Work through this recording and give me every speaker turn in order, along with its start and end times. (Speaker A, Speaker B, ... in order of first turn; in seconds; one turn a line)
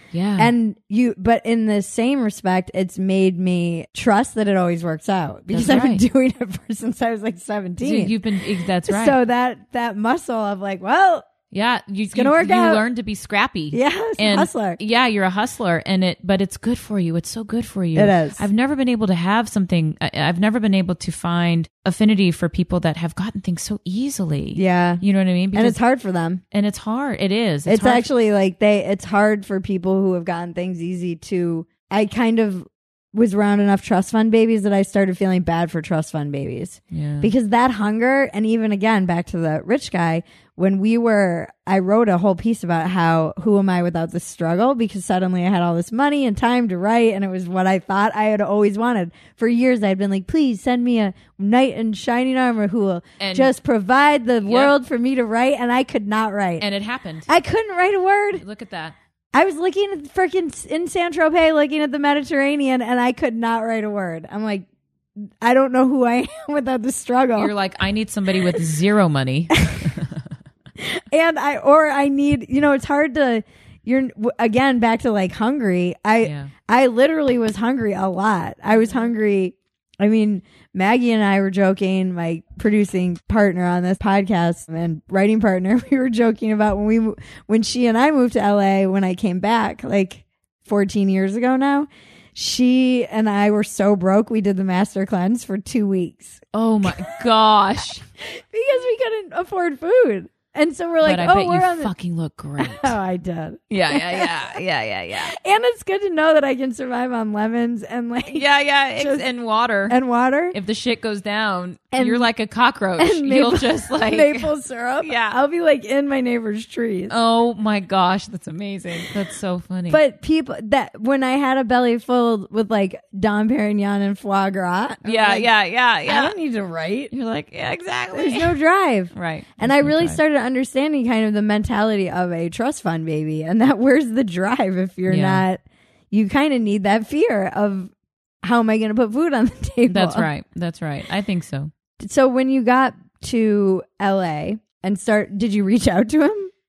Speaker A: 0.1-0.5
Speaker B: 0.4-11.2
Speaker A: 5.5-6.0
Speaker A: 7.8-9.2
Speaker A: 11.5-25.8
Speaker B: 12.1-12.8
Speaker B: 13.7-14.8
Speaker B: 17.9-18.4
Speaker B: 24.6-25.0
Speaker B: 25.5-26.4
Speaker A: 26.5-28.1
Speaker B: 27.7-56.6
Speaker A: 36.9-37.3
Speaker A: 53.2-53.5
Speaker A: 54.4-54.7
Speaker A: 56.6-57.3
Speaker B: 57.3-58.4
Speaker A: 58.4-58.9
Speaker B: 59.3-64.7
Speaker B: 65.2-67.5
Speaker A: 67.3-70.2
Speaker B: 70.8-97.0
Speaker A: 76.2-76.5
Speaker A: 96.5-98.0
Speaker B: 98.2-101.9
Speaker A: 101.0-102.9
Speaker B: 102.6-104.6
Speaker A: 103.7-105.3
Speaker B: 105.2-108.4
Speaker A: 108.3-110.0
Speaker B: 109.0-109.2
Speaker B: 109.9-110.5
Speaker A: 110.5-115.3
Speaker B: 111.9-112.3
Speaker B: 113.0-117.1
Speaker A: 117.1-120.0
Speaker B: 119.9-125.5
Speaker A: 125.0-126.3
Speaker B: 126.0-127.1
Speaker A: 127.1-128.5
Speaker B: 128.1-137.9
Speaker A: 129.1-130.2
Speaker A: 135.1-135.4
Speaker B: 138.4-140.3
Speaker A: 139.9-141.7
Speaker B: 142.0-146.5